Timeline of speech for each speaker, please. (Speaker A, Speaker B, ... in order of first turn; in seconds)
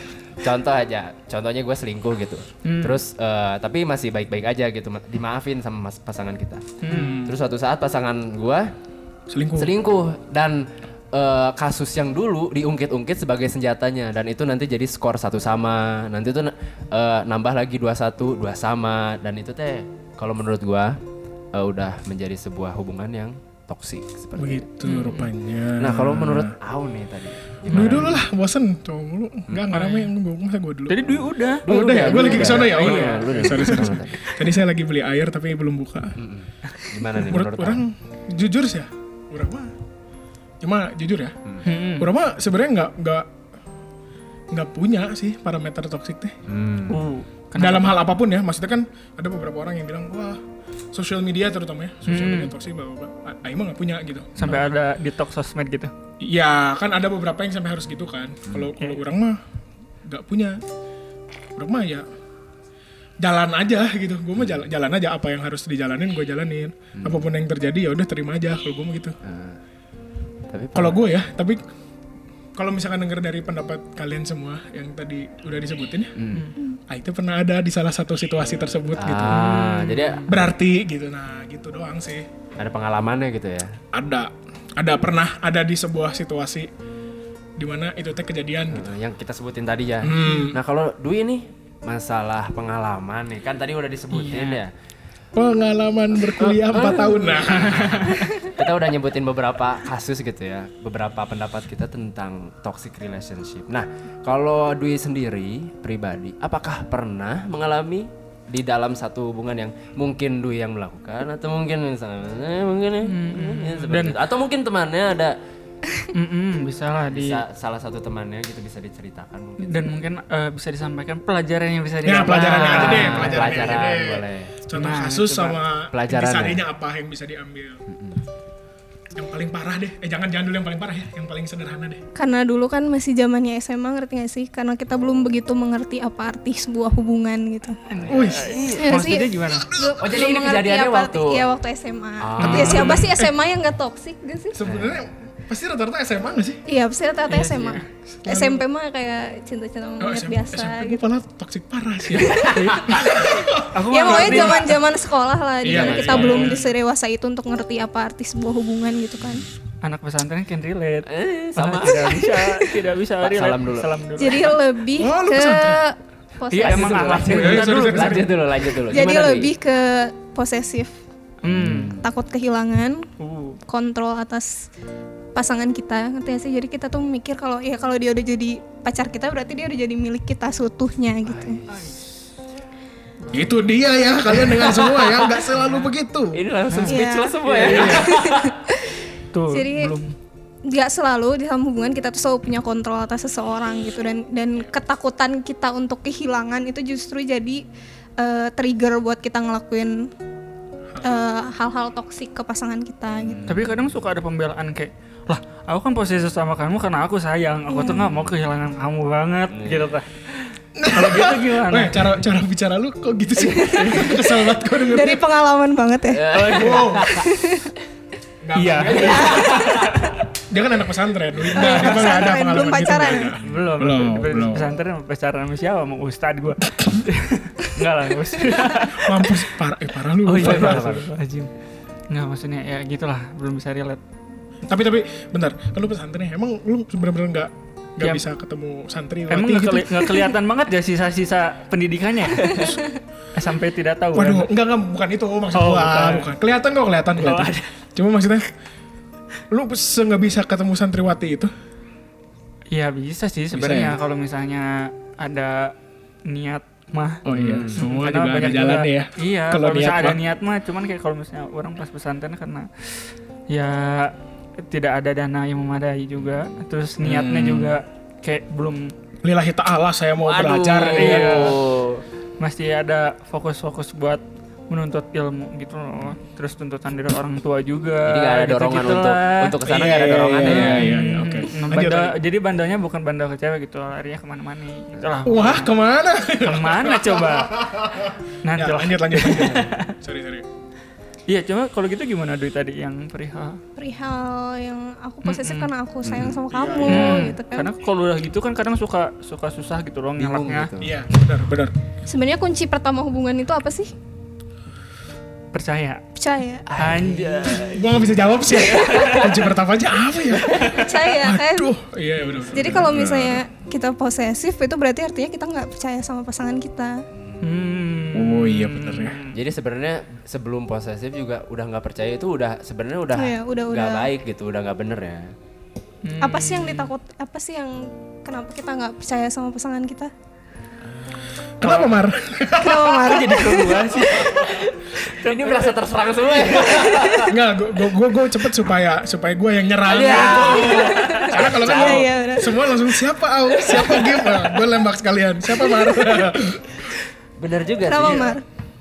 Speaker A: 0.4-8.7, 9.6-21.0, 21.5-24.7, 25.8-28.2, 31.6-34.3, 36.1-37.8, 46.5-47.0, 54.4-54.6, 67.0-67.3, 69.2-69.6, 70.5-71.0, 76.2-76.5, 79.0-80.3, 82.6-83.8, 88.7-94.7, 96.4-115.3, 117.1-119.9, 122.5-124.6, 125.9-126.6, 127.9-128.2, 137.9-139.0, 140.0-141.4, 142.2-143.0, 144.6-145.1, 152.2-152.8, 155.7-156.6, 161.1-162.7, 163.2-163.9, 166.5-169.5, 171.5-172.1, 181.2-181.8, 184.2-185.5, 186.3-188.6, 203.2-203.8, 209.5-209.9, 213.4-214.1, 216.1-217.3, 218.9-219.9, 230.3-231.1, 257.3-257.8, 270.2-272.0, 278.0-280.9, 296.0-296.4, 300.2-300.9, 306.7-307.8, 308.6-309.2, 310.4-310.8, 317.2-317.6, 319.3-325.3, 334.2-337.3, 339.9-342.1, 343.6-344.4, 347.4-348.3
Speaker B: 2.6-3.0, 6.8-7.2, 24.8-25.3, 27.7-28.1, 29.7-30.1, 30.9-34.3, 41.6-42.1, 46.9-48.0, 52.0-52.5, 54.4-55.9, 76.3-76.6, 79.2-80.3, 94.1-94.6, 97.7-98.4, 113.0-114.2, 116.1-117.4, 119.6-123.4, 124.7-125.6, 137.9-139.7, 142.4-143.1, 147.3-147.9, 152.5-154.8, 156.1-156.7, 159.8-164.6, 166.5-168.3, 171.4-171.9, 173.2-173.6, 181.7-182.1, 183.2-183.7, 185.5-185.9, 186.7-187.0, 189.3-190.1, 203.5-212.2, 216.3-217.0, 218.5-220.1, 221.6-222.2, 223.4-229.5, 230.2-231.5, 232.1-234.0, 238.0-238.2, 239.3-242.8, 243.3-244.5, 245.5-246.3, 247.2-247.7, 252.7-255.7, 256.2-268.9, 270.9-271.6, 272.4-279.6, 280.4-285.7, 286.4-287.6, 288.4-289.9, 291.3-293.6, 295.2-295.7, 296.9-300.7, 305.5-306.0, 306.8-307.9, 308.5-309.3, 317.4-319.3, 326.0-326.9, 331.6-331.9, 332.9-335.8
Speaker C: 6.8-7.3, 9.3-9.7, 24.4-26.5, 27.7-36.1, 37.2-39.7, 40.6-41.3, 42.0-43.3, 44.5-46.4, 47.5-50.4, 50.9-54.6, 56.2-59.4, 60.1-60.6, 61.6-62.0, 63.2-69.2, 70.7-71.6, 72.5-76.1, 76.9-79.4, 80.3-82.3, 83.9-86.7, 87.6-88.9, 90.0-90.6, 95.3-98.0, 122.0-127.8, 129.1-132.0, 138.1-138.6, 139.5-139.9, 142.4-143.3, 144.5-146.6, 148.2-148.6, 150.0-154.7, 155.6-156.6, 164.9-165.8, 167.2-168.3, 183.3-186.4, 187.4-188.2, 200.9-201.2, 210.8-215.2, 216.5-217.1, 218.4-219.6, 220.5-224.8, 228.8-231.0, 234.7-240.1, 244.1-248.5, 249.5-251.5, 253.5-254.0, 257.2-260.2, 267.0-267.8, 269.2-271.6, 279.6-282.1, 285.2-290.4, 296.5-297.3, 300.8-301.7, 307.7-313.4, 318.1-319.2, 331.6-333.2, 337.2-346.9
Speaker D: 132.1-137.8, 138.8-144.6, 146.7-151.0, 152.4-153.2, 153.9-159.4, 164.2-167.3, 168.9-170.9, 172.0-173.1, 173.7-174.7, 175.3-181.6, 186.8-189.0, 189.5-189.9, 190.7-197.6, 198.2-200.1, 201.0-203.4, 207.7-208.1, 213.4-217.7, 219.1-219.8, 221.6-223.3, 242.4-242.8, 293.8-297.7, 302.1-303.9, 306.1-306.7, 310.7-311.7, 312.5-317.0, 323.1-324.1, 326.2-330.1, 332.5-334.5, 336.6-337.2, 340.1-342.6, 347.8-348.4